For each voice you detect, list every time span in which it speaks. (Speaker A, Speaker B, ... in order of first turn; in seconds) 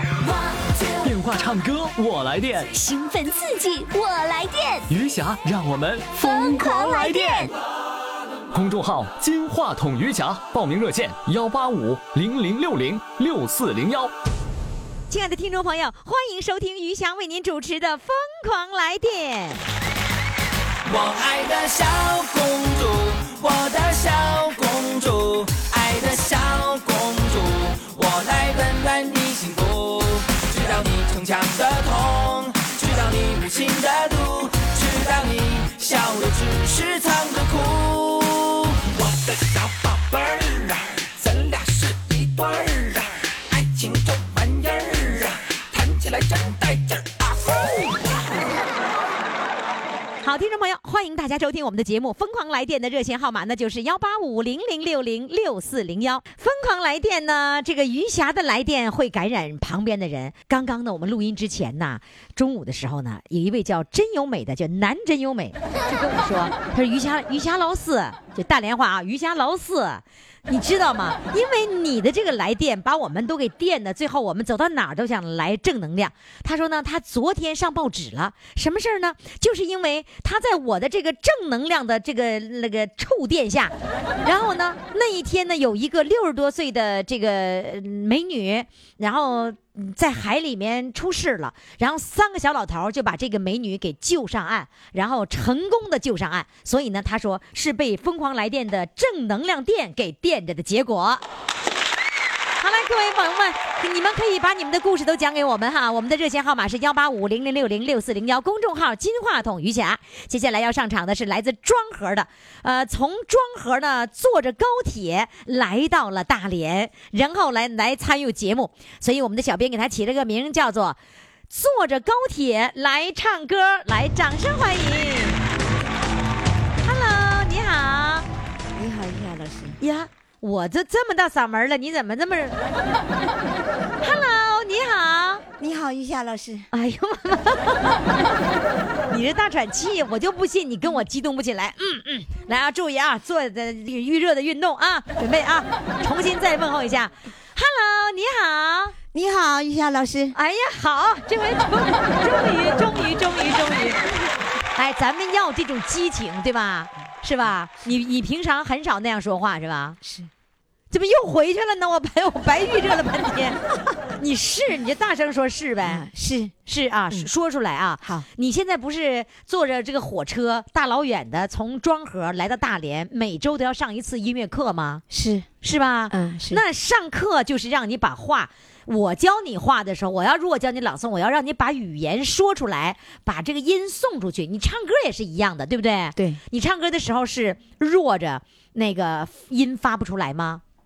Speaker A: 0.9-2.8, 4.9-7.5, 8.5-14.1
Speaker B: 2.8-4.8, 6.3-7.5
Speaker C: 15.1-19.6, 50.2-101.2, 102.6-121.0, 121.5-125.4, 126.8-128.3, 129.8-132.6, 134.0-135.4, 136.7-138.3, 139.1-149.0, 150.3-154.1, 154.7-160.0, 160.9-166.0, 166.7-175.0, 175.6-190.6
Speaker D: 20.9-48.4
Speaker E: 128.7-129.8, 135.6-136.7, 149.1-150.4, 160.0-160.3, 165.8-166.6, 175.1-175.5, 176.1-176.6, 186.2-186.4